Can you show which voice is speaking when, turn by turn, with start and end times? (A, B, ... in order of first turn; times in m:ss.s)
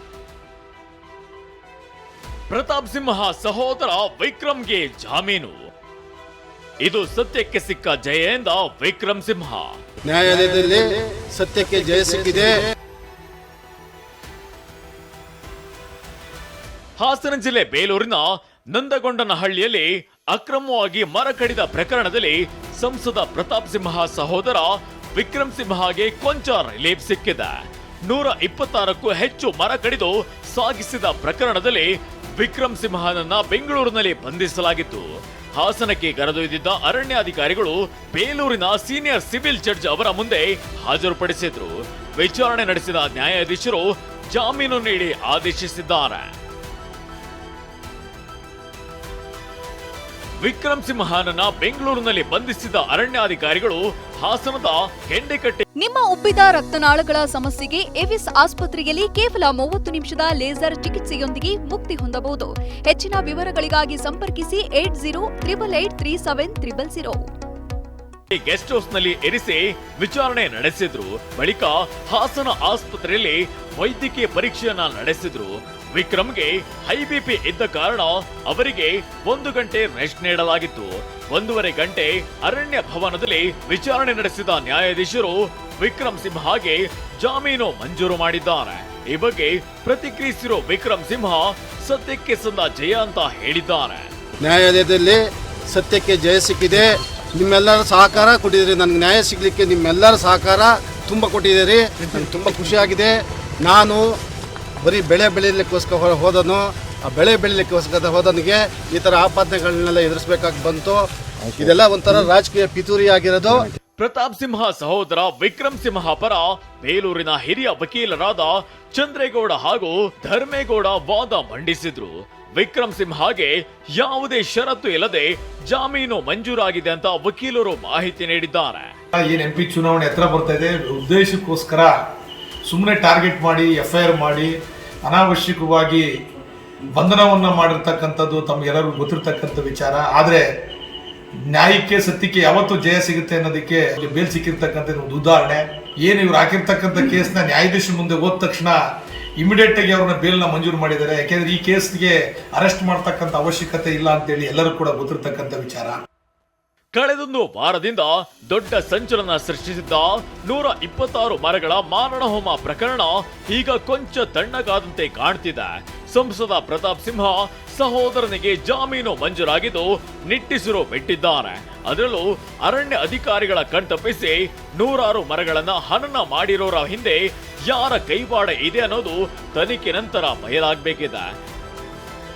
0:02.5-0:05.6 A
0:06.8-0:09.8 A
0:10.1-0:12.6 B
0:17.0-0:46.3 A
0:50.4-0:55.6 A
0:55.8-1:07.3 C
1:08.3-1:34.1 A
1:34.4-1:44.2 B
1:44.8-1:53.7 B
1:54.0-2:08.9 A
2:09.1-2:11.9 D
2:12.6-2:16.1 D
2:16.9-2:20.4 D
2:21.5-2:28.8 D
2:29.4-2:36.0 D
2:36.9-3:01.4 A